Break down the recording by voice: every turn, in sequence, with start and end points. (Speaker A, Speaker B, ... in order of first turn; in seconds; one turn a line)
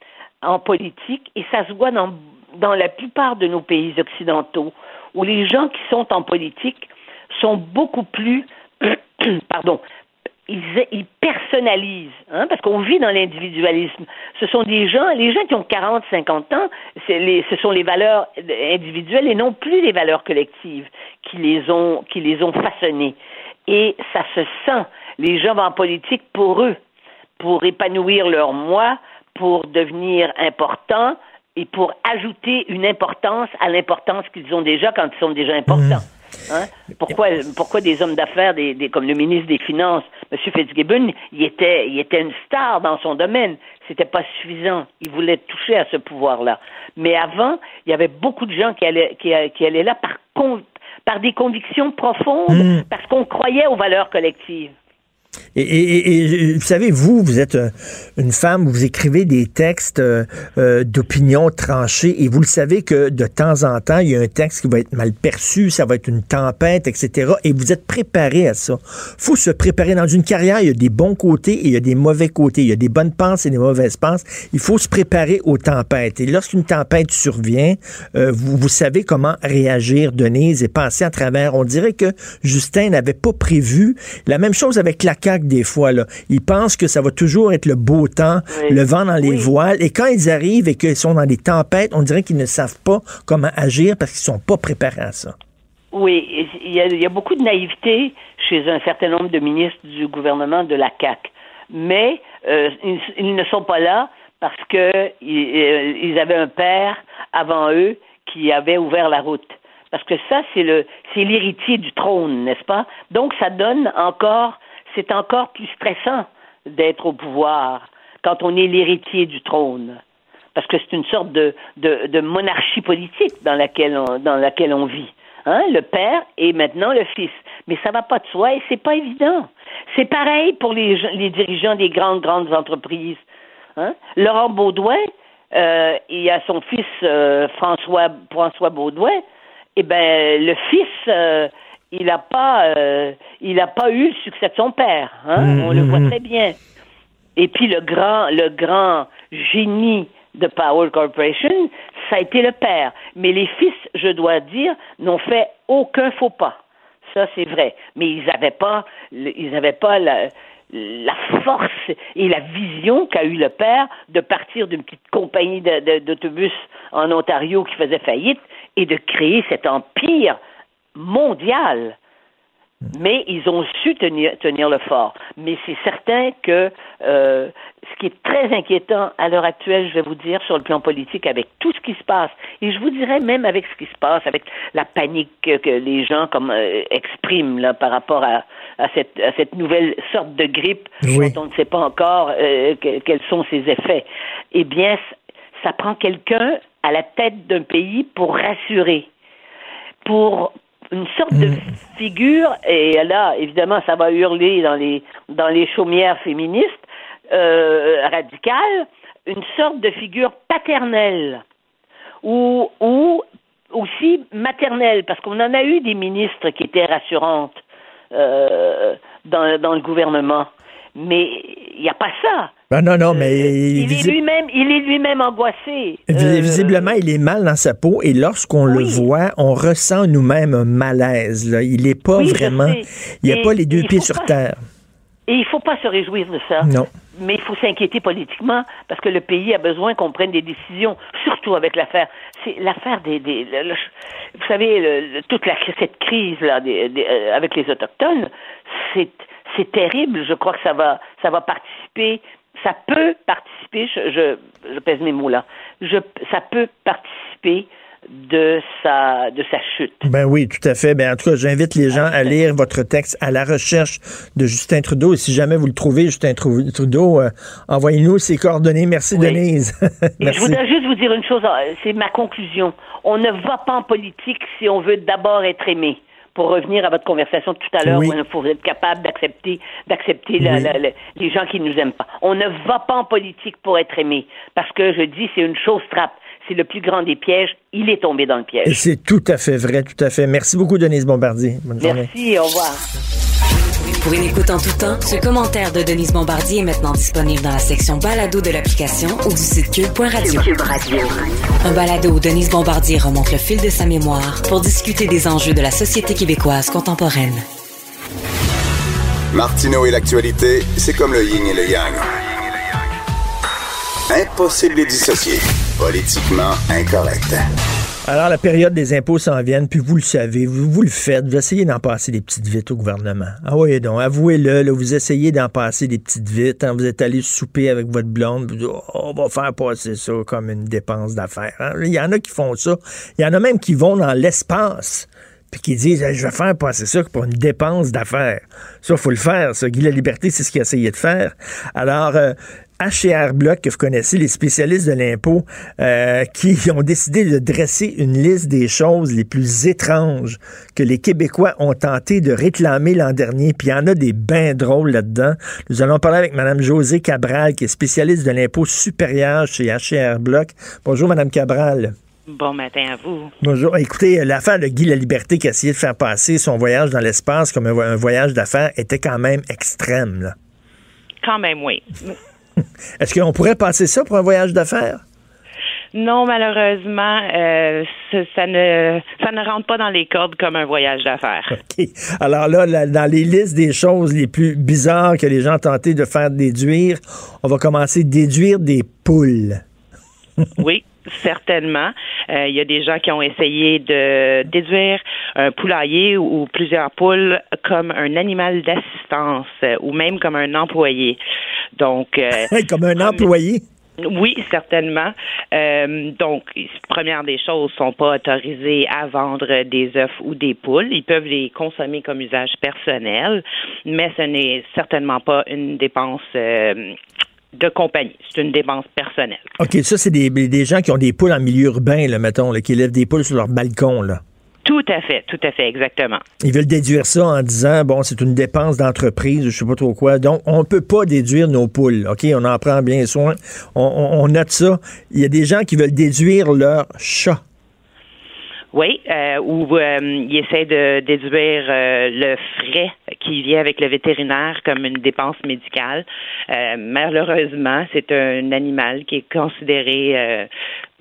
Speaker A: 0.4-9.8
Speaker A: 10.5-26.8
Speaker A: 27.4-54.7
Speaker B: 35.7-36.0
Speaker B: 52.5-52.8
Speaker B: 55.5-95.3
Speaker A: 88.5-89.5
Speaker A: 95.9-120.0
Speaker A: 120.5-133.2
Speaker A: 133.8-139.2
Speaker A: 139.8-146.6
Speaker B: 145.4-146.1
Speaker A: 147.4-170.4
Speaker A: 170.9-172.0
Speaker A: 172.9-199.1
Speaker B: 191.0-191.3
Speaker A: 200.0-211.4
Speaker A: 212.2-217.6
Speaker A: 218.1-222.5
Speaker B: 222.7-224.2
Speaker A: 223.1-226.9
Speaker B: 226.1-234.6
Speaker A: 228.7-229.1
Speaker A: 232.1-234.3
Speaker A: 235.3-260.1
Speaker B: 236.6-236.9
Speaker B: 260.0-270.6
Speaker A: 261.9-262.3
Speaker A: 269.1-269.4
Speaker A: 270.2-288.9
Speaker B: 277.9-278.1
Speaker B: 280.4-280.7
Speaker B: 288.7-292.1
Speaker A: 291.8-292.8
Speaker C: 293.9-307.4
Speaker D: 309.3-312.0
Speaker D: 314.1-317.4
Speaker B: 318.1-361.9
Speaker E: 362.3-363.3
Speaker B: 363.4-370.4
Speaker E: 371.2-372.2
Speaker B: 373.0-375.0
Speaker E: 375.9-381.6
Speaker B: 381.5-389.6
Speaker E: 390.6-401.2
Speaker E: 401.8-403.3
Speaker B: 402.4-403.6
Speaker E: 404.0-417.0
Speaker E: 417.5-419.5
Speaker B: 419.6-424.2
Speaker E: 424.6-426.2
Speaker B: 426.4-437.4
Speaker E: 438.7-450.5